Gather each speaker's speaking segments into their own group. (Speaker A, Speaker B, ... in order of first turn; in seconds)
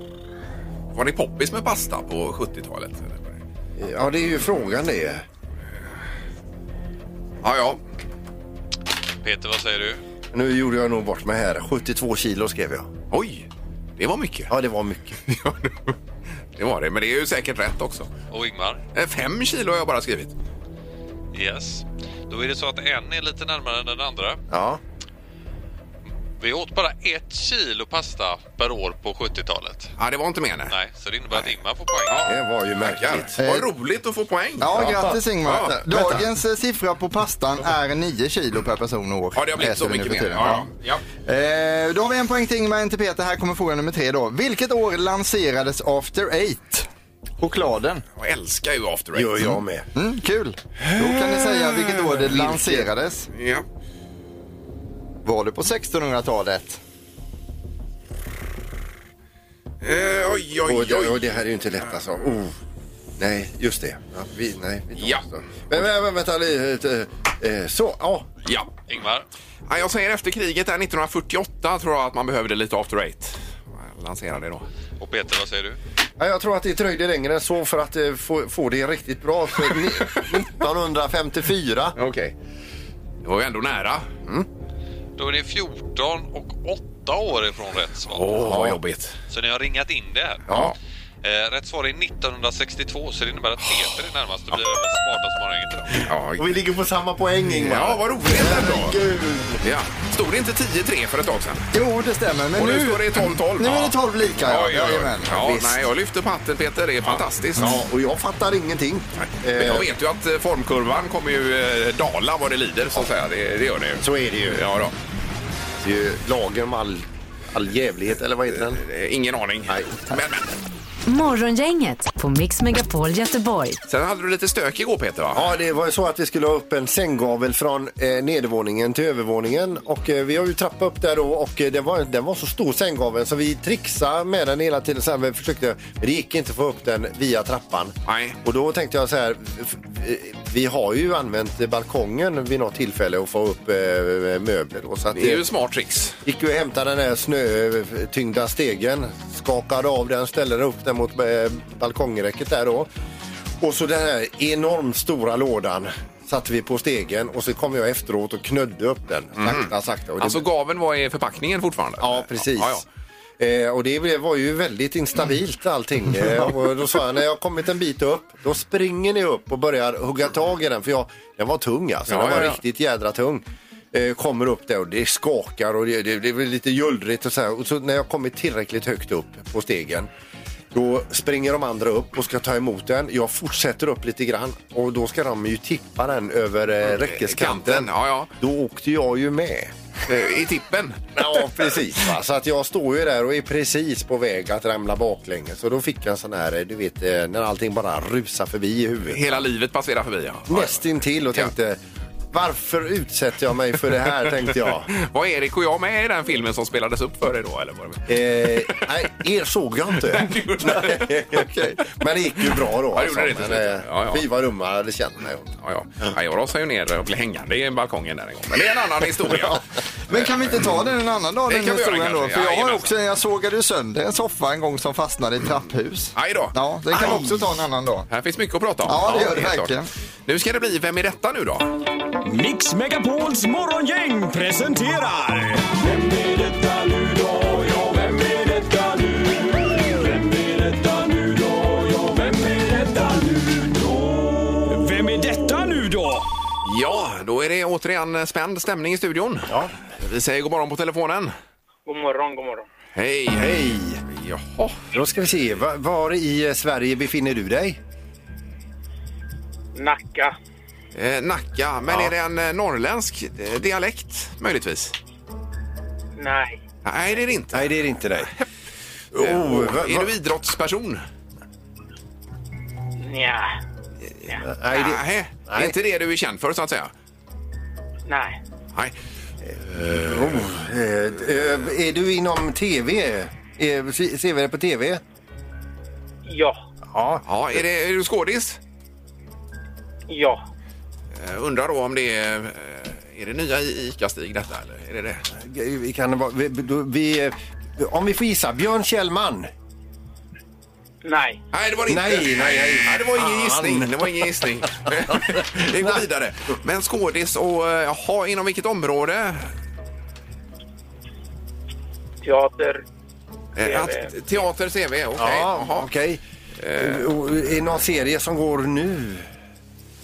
Speaker A: 0.9-3.4, 7.4-7.8, 13.1-14.5, 15.3-15.9, 16.6-18.1, 18.9-20.3, 30.0-30.7, 32.1-34.8, 35.5-35.8, 39.4-41.0, 48.2-49.6, 50.8-52.5, 53.3-53.6, 59.8-61.3, 65.0-65.2, 68.5-68.7, 69.7-74.7, 79.7-80.3, 82.0-82.3, 83.2-84.2, 88.1-89.2, 90.5-90.8, 96.1-96.5, 97.6-99.0, 99.6-101.7, 102.6-107.8, 109.2-114.9, 118.6-120.5, 123.9-125.5, 138.1-138.4, 145.1-146.2, 159.4-162.8, 172.1-172.6, 186.8-188.3, 190.1-191.1, 199.1-201.5, 204.9-208.8, 210.0-211.1, 212.9-214.2, 215.6-220.6, 221.5-222.9, 226.2-227.4, 228.1-231.7, 246.6-251.3, 252.9-254.8, 260.9-264.9, 266.9-267.7, 269.1-271.0, 274.7-276.9, 279.9-280.4, 287.2-288.6, 291.2-295.2, 301.5-309.5, 313.6-315.9, 316.6-317.1
Speaker B: 3.8-5.2, 10.3-12.9, 14.5-15.2, 24.5-24.8, 32.3-33.4, 34.7-36.2, 49.1-49.9, 52.5-52.9, 60.6-62.5, 63.2-68.3, 76.2-82.0, 88.4-88.8, 90.5-90.8, 96.4-99.5, 105.3-105.8, 107.6-109.9, 114.0-114.7, 115.8-118.8, 119.7-120.0, 125.3-145.4, 146.2-152.9, 153.6-160.4, 162.0-162.8, 163.4-180.1, 180.7-189.7, 191.2-199.4, 200.5-201.8, 202.3-204.9, 208.1-215.5, 253.3-254.0, 254.9-257.8, 267.5-268.3, 269.1-270.1, 274.4-275.8, 279.5-285.0, 286.9-287.2, 295.4-299.5, 301.9-304.1, 304.9-306.0, 315.2-316.2, 316.8-319.3
Speaker C: 9.2-10.0, 18.3-18.8, 21.3-24.4, 26.4-29.9, 30.7-32.3, 68.9-69.3, 75.0-75.8, 85.2-88.4, 89.3-90.5, 91.2-96.1
Speaker D: 33.4-33.7, 34.6-40.7, 41.3-46.9, 47.4-48.0, 50.0-53.3, 55.2-56.8, 101.7-105.3, 220.1-228.1, 228.9-229.9
Speaker E: 121.0-123.8
Speaker F: 232.2-246.3
Speaker G: 251.9-252.7, 259.8-260.4, 266.2-266.6, 273.0-273.6, 278.1-278.4, 286.3-286.6, 290.1-290.4, 301.0-301.4, 312.2-312.8, 313.6-314.4